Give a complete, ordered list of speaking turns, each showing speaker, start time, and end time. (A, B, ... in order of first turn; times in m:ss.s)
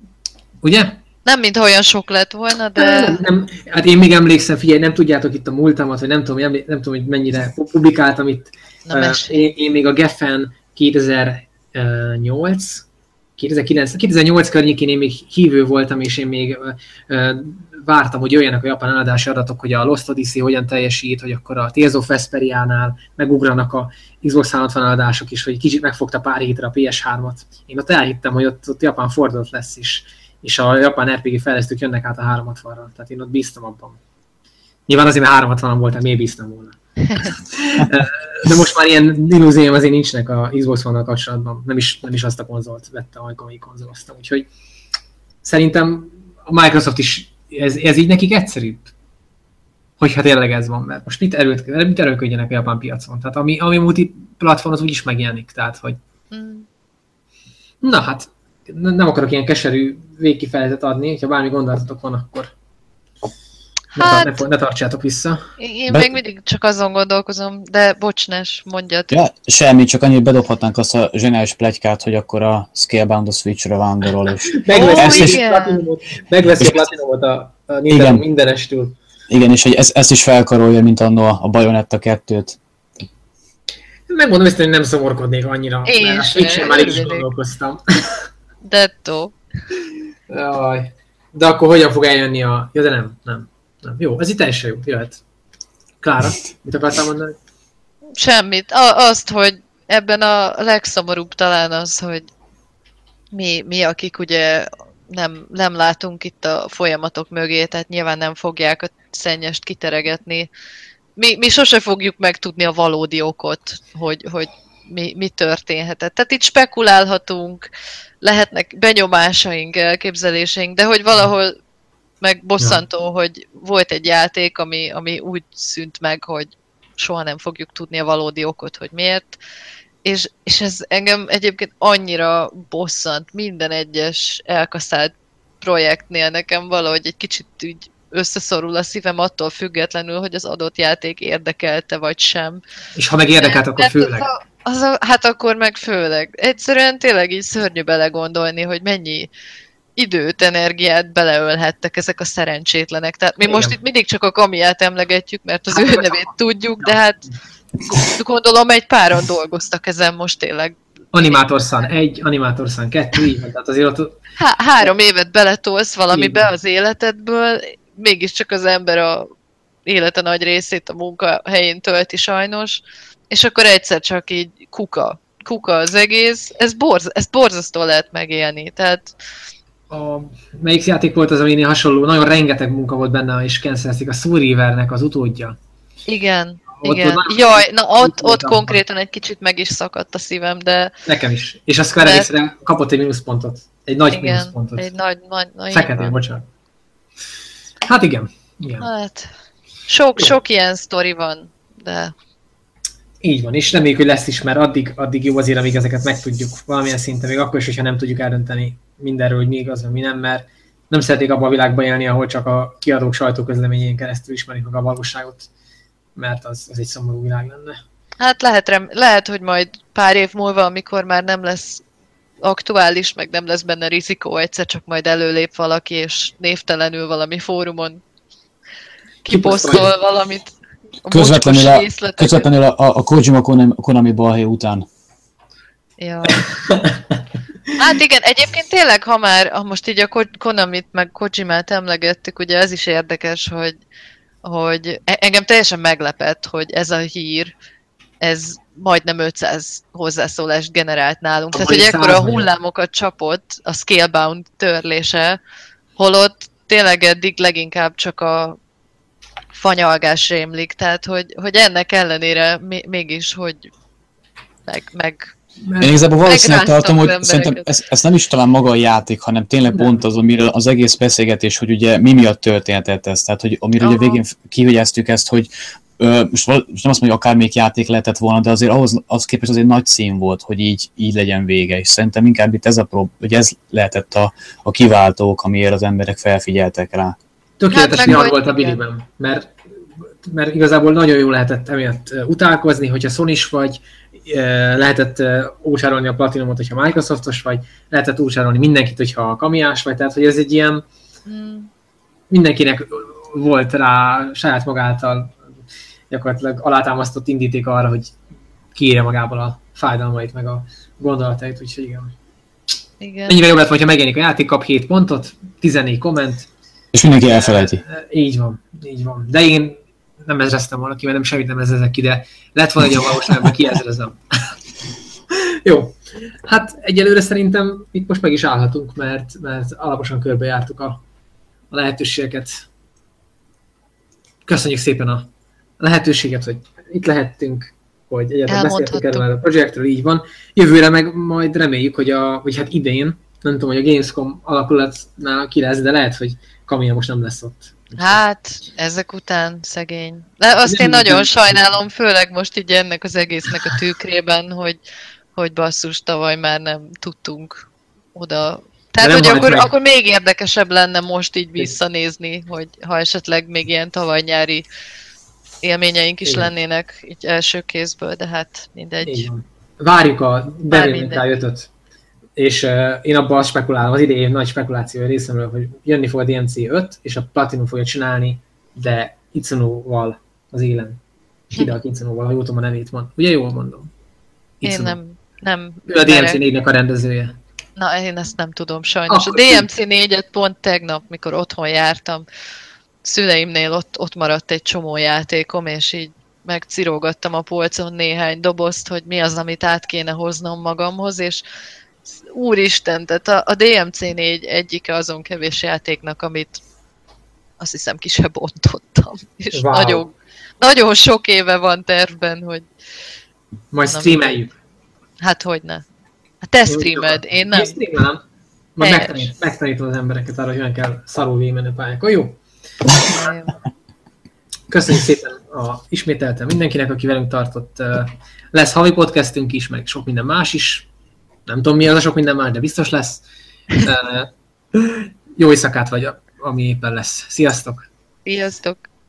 0:00.6-0:01.0 A
0:01.2-0:03.2 B
0:02.8-0:12.8 A
0:08.9-0:09.5 B
0:13.4-0:34.0 A
0:34.9-0:44.5 A
0:45.4-0:48.9 A
0:50.0-0:56.0 A
0:56.3-0:56.7 B
0:57.8-1:02.5 A
1:03.9-1:04.4 B
1:04.0-1:05.5 A
1:05.6-1:09.2 B
1:09.1-1:15.4 C
1:14.6-1:19.0 A
1:14.7-1:15.8 B
1:17.9-1:18.2 C
1:19.3-1:22.6 C
1:24.1-1:28.2 A
1:25.8-1:27.2 B
1:28.6-1:29.3 B
1:30.3-1:35.2 A
1:36.0-1:37.3 A
1:38.2-1:42.3 B
1:43.3-1:50.5 B
1:51.2-1:57.6 B
1:58.2-2:01.5 B
2:02.2-2:09.4 B
2:10.0-2:22.6 B
2:23.0-2:24.3 A
2:23.4-2:29.3 B
2:30.0-2:37.2 B
2:33.4-2:33.8 A
2:35.7-2:36.2 A
2:37.9-2:41.4 B
2:41.1-2:44.2 A
2:44.4-2:49.3 B
2:46.1-2:46.5 A
2:49.8-2:59.1 B
2:59.9-3:05.6 A
3:06.1-3:10.9 B
3:06.8-3:08.8 A
3:11.1-3:14.9 A
3:12.0-3:12.3 B
3:14.1-3:16.2 B
3:15.7-3:16.4 A
3:17.9-3:18.9 A
3:18.8-3:19.3 B
3:19.9-3:22.1 B
3:23.2-3:35.5 A
3:36.2-3:37.8 A
3:38.2-3:41.8 B
3:42.4-3:48.0 B
3:49.2-3:50.5 B
3:49.3-3:49.9 A
3:51.0-3:52.5 B
3:51.1-3:54.8 C
3:56.0-3:56.4 B
3:56.6-3:56.9 A
3:57.8-4:03.8 B
4:04.4-4:07.5 B
4:08.2-4:15.4 B
4:11.5-4:12.4 A
4:16.0-4:18.6 B
4:19.5-4:23.7 B
4:24.7-4:25.3 B
4:25.6-4:25.9 A
4:25.8-4:47.2 C
4:26.2-4:27.7 B
4:33.8-4:34.2 B
4:47.6-4:49.5 A
4:47.7-4:48.8 B
4:50.2-5:00.8 A
5:01.2-5:01.7 B
5:02.3-5:05.4 A
5:06.1-5:08.1 A
5:08.7-5:12.1 A
5:13.0-5:13.4 B
5:13.3-5:16.5 A
5:16.9-5:17.8 C
5:17.2-5:24.5 A
5:25.3-5:31.0 A
5:31.7-5:32.6 A
5:34.4-5:35.3 A
5:35.8-5:48.2 A
5:38.5-5:39.2 B
5:48.0-5:54.8 B
5:50.6-5:51.6 A
5:55.4-6:04.6 B
5:59.0-5:59.7 A
6:05.6-6:09.3 B
6:09.0-6:11.7 A
6:10.7-6:11.2 B
6:12.4-6:21.0 A
6:21.5-6:23.9 A
6:24.6-6:25.0 A
6:24.6-6:26.4 B
6:25.9-6:27.4 A
6:27.8-6:32.2 B
6:29.1-6:29.6 A
6:33.0-6:41.4 B
6:42.1-6:46.6 B
6:47.6-6:52.7 B
6:49.5-6:50.0 A
6:53.7-6:54.5 A
6:53.9-6:54.3 B
6:55.2-6:55.8 B
6:56.4-6:57.8 B
6:56.7-6:58.2 A
6:58.8-7:02.4 A
6:58.8-6:59.3 B
7:02.9-7:03.6 B
7:04.7-7:10.9 A
7:11.5-7:13.2 A
7:13.8-7:17.8 A
7:18.2-7:18.8 B